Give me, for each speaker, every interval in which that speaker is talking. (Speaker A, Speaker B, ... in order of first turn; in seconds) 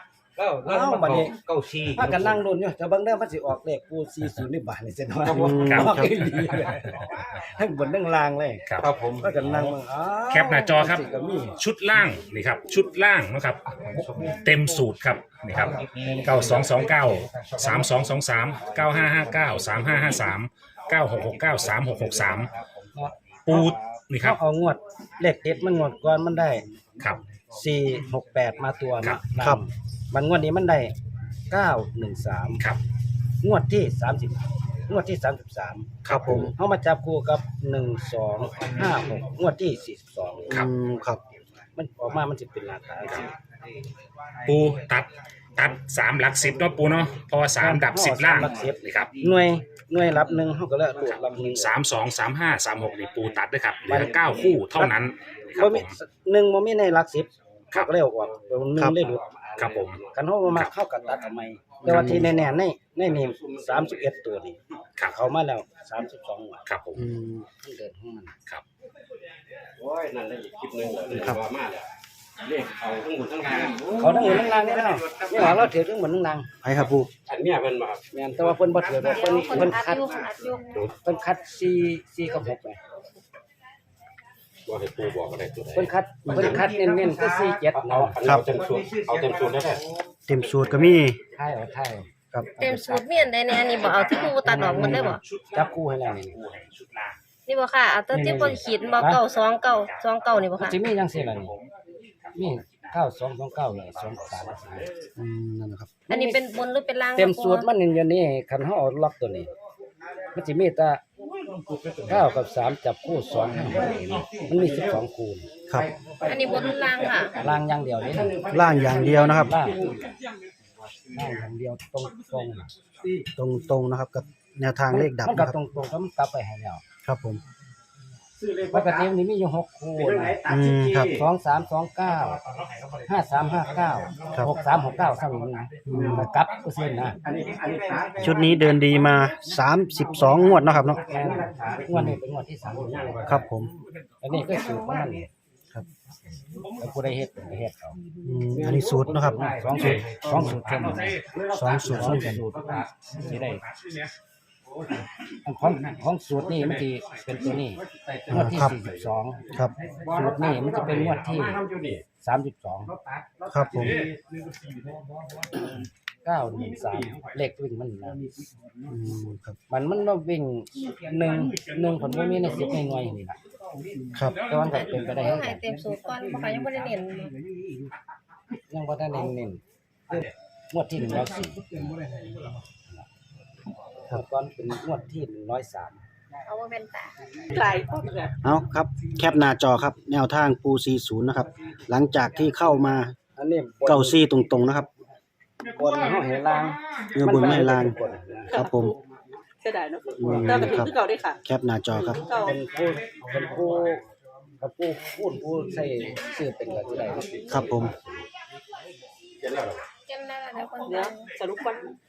Speaker A: 0.4-2.3, 8.8-9.4, 13.9-14.4, 15.5-18.0, 18.6-20.0
Speaker B: 0.6-1.3, 1.9-8.6, 9.2-11.6, 24.2-26.6, 27.5-30.9, 31.5-32.6, 33.4-40.6, 41.8-43.3, 47.6-51.7, 53.9-55.0, 55.5-59.2, 60.1-66.6, 67.5-68.3, 73.9-76.5, 78.1-80.0, 81.0-82.8, 85.7-88.2, 91.3-92.1, 92.6-93.2, 94.4-96.4, 98.1-99.2, 100.6-101.5, 102.3-104.9, 106.1-106.4, 107.1-109.5, 110.3-111.0, 112.0-115.5, 117.4-118.4, 119.0-119.8, 121.1-122.7, 124.9-126.8, 128.7-130.4, 131.1-132.4, 133.1-137.2, 141.0-143.4, 144.2-145.3, 146.8-148.0, 149.2-151.2, 151.7-153.5, 155.4-159.4, 160.1-161.6, 162.2-162.9, 166.2-168.2, 169.7-173.4, 174.4-175.6, 178.7-181.9, 184.1-186.0, 193.4-194.2, 195.7-198.5, 202.4-204.0, 204.6-207.3
Speaker C: 5.3-6.1, 36.1-36.5, 40.5-41.2, 61.8-62.3, 67.0-67.5, 76.6-77.1, 86.2-86.7, 90.3-91.2, 105.2-106.0, 118.5-119.6, 123.3-125.5, 127.0-127.4, 130.4-131.1, 135.9-136.3, 138.2-141.0, 141.9-142.2, 143.2-143.7, 148.2-149.4, 150.4-152.4, 158.3-158.7, 163.5-164.1, 168.9-169.6, 174.1-174.4, 188.4-193.1, 193.8-194.9, 197.1-198.0, 198.5-198.9, 200.2-200.9, 201.4-202.2, 207.5-207.9
Speaker D: 5.7-6.0, 10.3-11.0, 11.6-22.5, 23.5-24.4, 36.0-36.5, 44.5-49.1, 51.1-55.9, 59.6-60.0, 66.7-67.0, 93.7-94.4, 95.0-97.2, 99.7-101.7, 102.2-102.9, 104.0-104.5
Speaker E: 59.2-60.0, 63.2-64.1, 69.8-71.9, 72.4-74.1, 77.2-78.0, 84.7-86.7, 87.7-89.8, 130.1-131.1, 137.3-138.4, 141.1-141.9, 142.8-143.4, 148.6-150.8, 153.2-153.6, 158.1-158.8, 160.8-162.0, 207.0-208.2, 209.4-209.8
Speaker F: 79.1-80.7, 92.6-95.2, 97.5-100.8, 106.1-107.7, 116.2-117.3, 174.7-177.3, 186.5-187.5, 210.1-211.3
Speaker G: 187.5-188.3, 198.5-198.9, 199.6-201.4, 202.1-202.6, 210.8-211.9